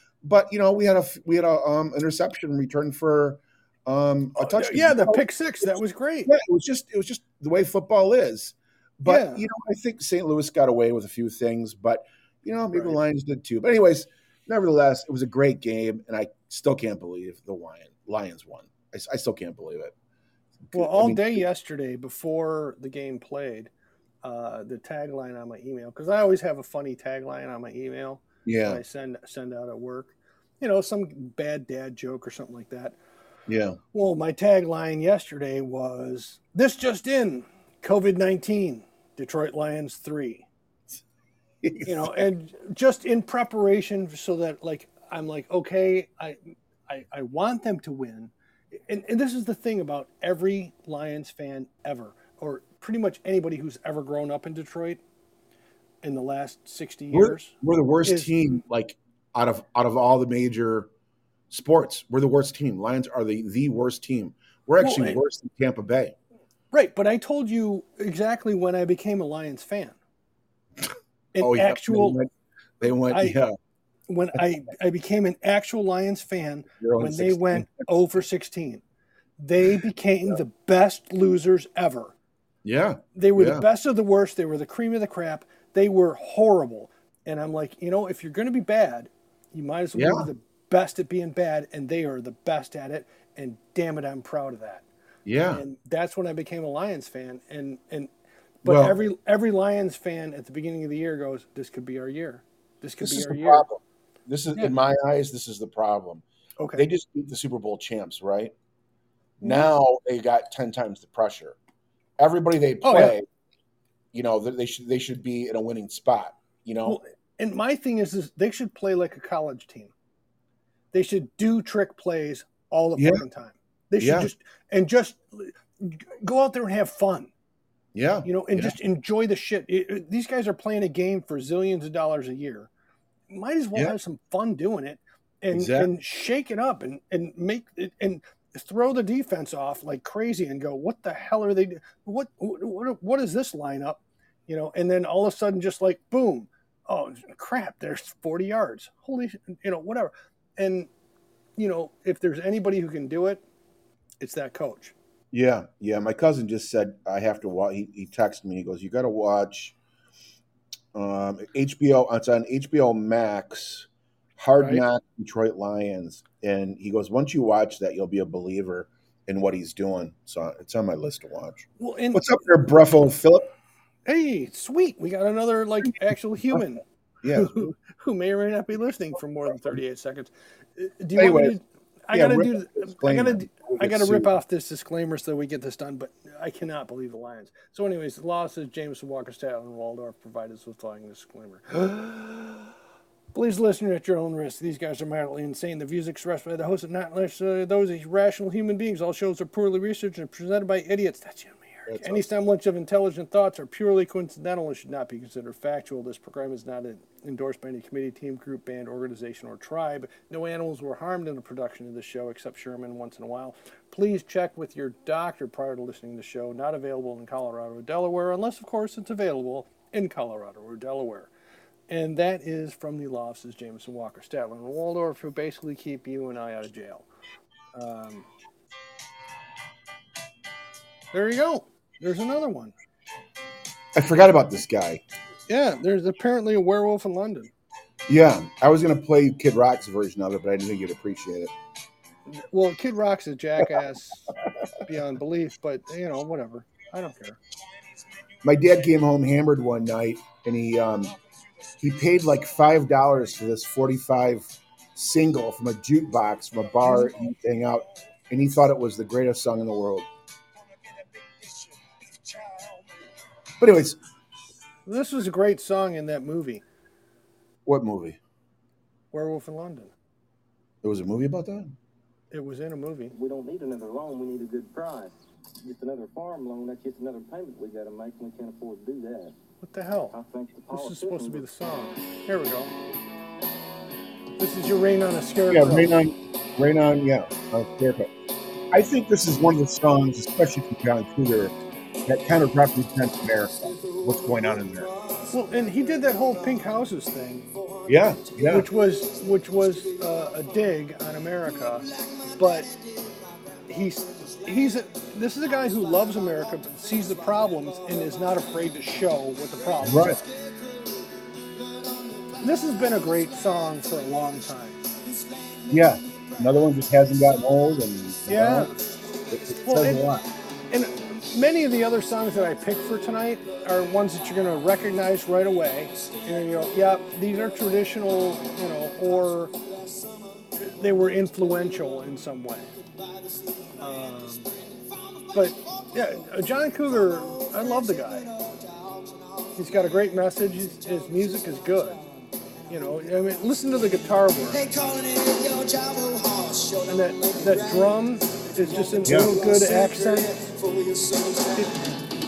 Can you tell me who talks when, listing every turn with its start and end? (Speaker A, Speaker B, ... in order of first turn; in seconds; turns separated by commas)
Speaker A: 0.2-5.7, Speaker B: 4.4-6.3, Speaker A: 6.2-19.9, Speaker B: 9.1-9.4, Speaker A: 20.6-21.4, Speaker B: 20.7-23.7, Speaker B: 24.2-33.0, Speaker A: 28.4-28.8, Speaker A: 33.5-33.8, Speaker B: 33.9-40.5, Speaker A: 41.6-42.2, Speaker B: 41.8-55.0, Speaker B: 56.0-57.5, Speaker A: 57.1-60.9, Speaker B: 58.0-58.3, Speaker A: 61.5-66.1, Speaker B: 64.8-65.2, Speaker B: 66.7-70.0, Speaker B: 71.3-72.2, Speaker A: 71.4-72.3, Speaker A: 72.8-73.5, Speaker B: 73.1-73.4, Speaker B: 74.1-78.8, Speaker A: 76.8-77.8, Speaker B: 79.4-82.1, Speaker A: 82.6-83.6, Speaker B: 83.1-94.8, Speaker A: 89.9-90.3, Speaker A: 95.2-95.6, Speaker B: 95.5-98.1, Speaker B: 98.6-103.7, Speaker A: 98.6-99.0, Speaker A: 103.0-106.2, Speaker B: 106.6-106.8, Speaker A: 106.7-108.5, Speaker B: 109.4-109.7, Speaker A: 109.4-111.6, Speaker A: 112.2-113.2, Speaker B: 112.8-113.1, Speaker A: 114.1-117.0, Speaker B: 116.8-119.9, Speaker B: 120.9-127.3, Speaker A: 123.0-123.2, Speaker A: 124.0-124.3, Speaker A: 127.9-128.8, Speaker B: 128.2-132.7, Speaker B: 133.3-150.9, Speaker A: 135.5-135.9, Speaker B: 151.6-153.4, Speaker B: 154.2-154.9, Speaker A: 155.3-159.8, Speaker A: 160.9-173.5, Speaker B: 171.8-172.3, Speaker B: 174.1-192.7, Speaker A: 177.2-177.7, Speaker A: 181.2-181.6, Speaker A: 182.1-184.3, Speaker B: 193.3-221.3, Speaker A: 201.9-202.2, Speaker B: 221.9-227.1, Speaker B: 227.7-228.3, Speaker B: 231.1-232.7, Speaker A: 233.9-235.0, Speaker B: 235.5-237.5, Speaker A: 238.1-241.5, Speaker B: 242.3-244.3, Speaker B: 244.8-247.4, Speaker A: 248.4-251.2, Speaker A: 251.8-260.1, Speaker A: 263.6-264.0, Speaker B: 264.9-266.6, Speaker A: 267.6-268.2, Speaker B: 269.1-269.9, Speaker A: 270.8-271.7, Speaker B: 272.3-273.1, Speaker C: 273.1-279.3, Speaker B: 279.6-280.2, Speaker C: 280.1-281.4, Speaker B: 280.7-282.7, Speaker B: 284.4-285.9, Speaker A: 285.5-288.1, Speaker A: 288.7-291.5, Speaker A: 292.1-294.9, Speaker B: 295.3-297.5, Speaker A: 297.9-298.7, Speaker B: 298.5-302.7, Speaker B: 303.7-310.2, Speaker A: 309.8-310.2, Speaker B: 312.4-314.8, Speaker A: 315.7-318.8, Speaker B: 318.3-318.8, Speaker A: 319.3-320.2, Speaker B: 319.6-320.1, Speaker B: 320.7-329.5, Speaker B: 330.6-332.7, Speaker B: 333.8-334.5, Speaker B: 335.3-338.3, Speaker B: 339.6-342.0, Speaker B: 342.7-344.6, Speaker D: 344.7-346.7, Speaker B: 346.8-350.4, Speaker A: 349.0-349.4, Speaker D: 350.7-351.4